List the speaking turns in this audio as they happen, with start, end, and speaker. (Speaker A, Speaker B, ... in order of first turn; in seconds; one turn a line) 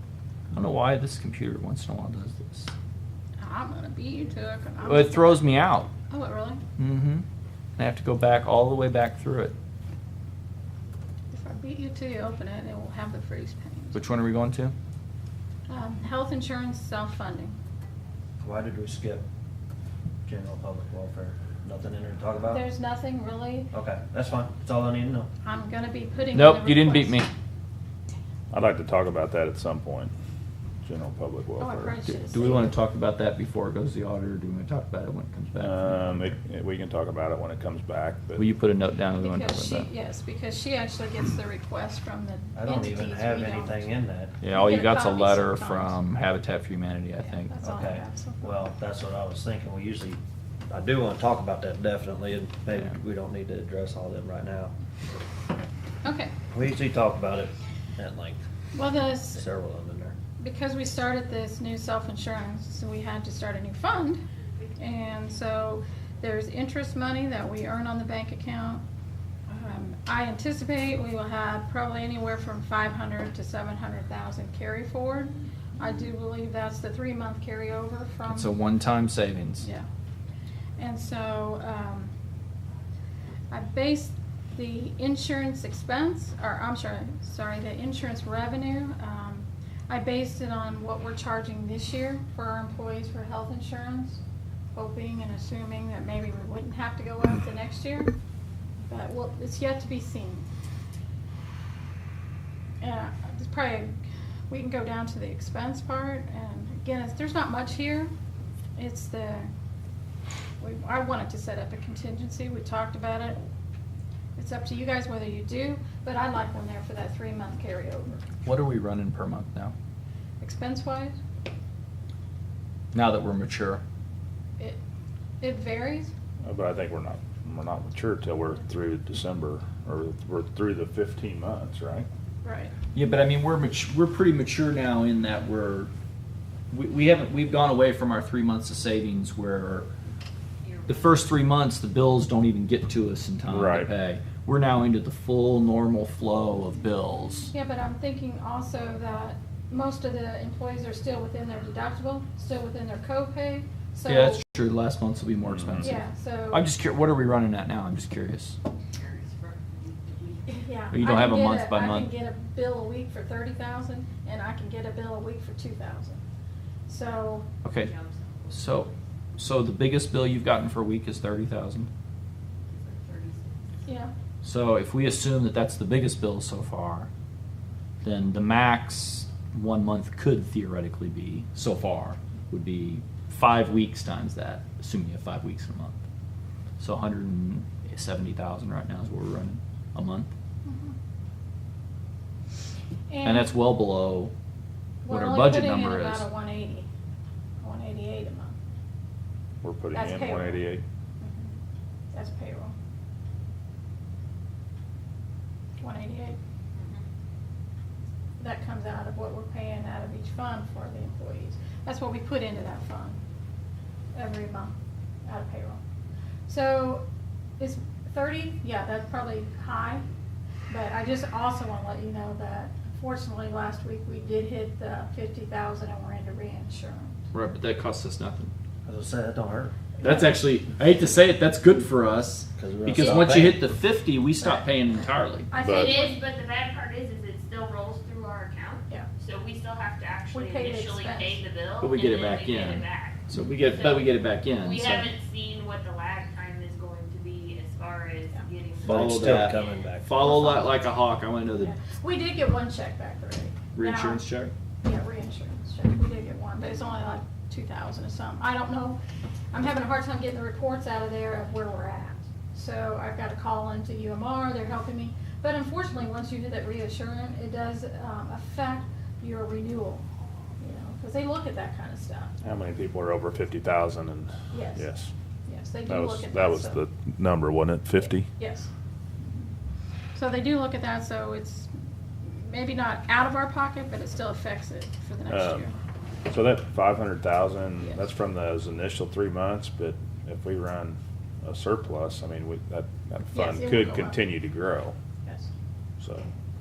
Speaker A: 0.5-2.7
Speaker B: 3.4-5.5
Speaker A: 4.8-5.9
Speaker B: 6.1-6.6
Speaker A: 6.8-7.2
Speaker A: 7.8-9.6
Speaker B: 11.3-14.0
Speaker A: 13.9-14.8
Speaker B: 15.7-17.6
Speaker C: 18.4-19.2
Speaker C: 20.3-22.6
Speaker B: 22.5-23.7
Speaker C: 23.7-25.3
Speaker B: 25.4-27.3
Speaker A: 26.3-27.3
Speaker D: 28.5-30.1
Speaker D: 30.8-32.0
Speaker B: 31.6-32.7
Speaker A: 32.0-36.3
Speaker D: 35.6-38.5
Speaker A: 38.4-39.9
Speaker B: 39.2-43.9
Speaker C: 42.5-44.4
Speaker A: 44.4-47.5
Speaker B: 44.4-46.0
Speaker B: 47.2-48.6
Speaker C: 47.6-54.7
Speaker B: 56.0-56.3
Speaker C: 56.5-58.4
Speaker B: 58.8-59.4
Speaker C: 59.3-60.2
Speaker B: 60.4-64.2
Speaker B: 64.8-68.8
Speaker B: 69.5-78.5
Speaker A: 78.3-79.7
Speaker B: 79.6-79.9
Speaker B: 80.8-82.1
Speaker B: 83.5-94.2
Speaker B: 94.7-98.1
Speaker B: 98.8-100.5
Speaker B: 102.8-108.1
Speaker B: 108.8-109.5
Speaker B: 110.6-113.5
Speaker B: 114.4-118.3
Speaker A: 118.4-119.7
Speaker B: 120.4-121.2
Speaker A: 122.9-123.8
Speaker B: 125.4-126.1
Speaker D: 126.4-132.1
Speaker B: 132.4-132.7
Speaker A: 132.9-135.9
Speaker A: 136.7-139.9
Speaker E: 140.6-141.2
Speaker A: 140.9-147.5
Speaker D: 143.5-143.9
Speaker B: 147.5-154.4
Speaker A: 154.1-158.6
Speaker D: 155.5-155.9
Speaker B: 155.8-156.7
Speaker E: 158.9-160.7
Speaker B: 160.5-166.2
Speaker A: 160.9-162.1
Speaker B: 166.9-167.5
Speaker A: 167.6-167.9
Speaker E: 167.8-168.9
Speaker A: 168.5-171.9
Speaker E: 172.7-173.8
Speaker B: 173.9-174.1
Speaker A: 174.4-177.1
Speaker A: 178.0-186.0
Speaker A: 186.8-190.3
Speaker B: 190.7-191.0
Speaker B: 193.1-193.6
Speaker A: 193.2-194.3
Speaker B: 195.0-196.9
Speaker A: 195.1-196.3
Speaker B: 197.6-198.6
Speaker D: 199.6-200.8
Speaker B: 199.9-200.7
Speaker B: 201.2-201.6
Speaker B: 202.1-202.8
Speaker B: 205.8-206.4
Speaker E: 206.8-207.1
Speaker B: 208.4-213.2
Speaker B: 214.1-215.8
Speaker B: 216.5-217.1
Speaker B: 217.6-220.0
Speaker B: 220.7-227.2
Speaker A: 227.3-228.5
Speaker C: 228.8-229.8
Speaker B: 230.0-230.4
Speaker A: 230.0-235.5
Speaker C: 232.6-233.6
Speaker B: 233.0-233.3
Speaker B: 234.4-234.7
Speaker B: 235.5-236.2
Speaker E: 235.5-249.9
Speaker D: 235.6-236.0
Speaker B: 240.3-241.5
Speaker A: 241.8-245.1
Speaker C: 248.8-250.5
Speaker A: 248.8-251.7
Speaker B: 250.2-250.7
Speaker B: 251.6-254.2
Speaker A: 253.7-254.5
Speaker B: 254.8-259.0
Speaker B: 259.5-270.1
Speaker B: 270.6-272.3
Speaker D: 272.4-275.1
Speaker B: 274.5-274.9
Speaker B: 275.5-276.8
Speaker D: 275.9-278.3
Speaker B: 278.4-278.7
Speaker B: 279.2-279.5
Speaker B: 280.1-281.7
Speaker B: 282.2-285.8
Speaker D: 285.3-285.7
Speaker D: 286.3-294.9
Speaker B: 287.8-288.1
Speaker B: 293.3-294.2
Speaker B: 295.2-295.5
Speaker D: 296.0-296.3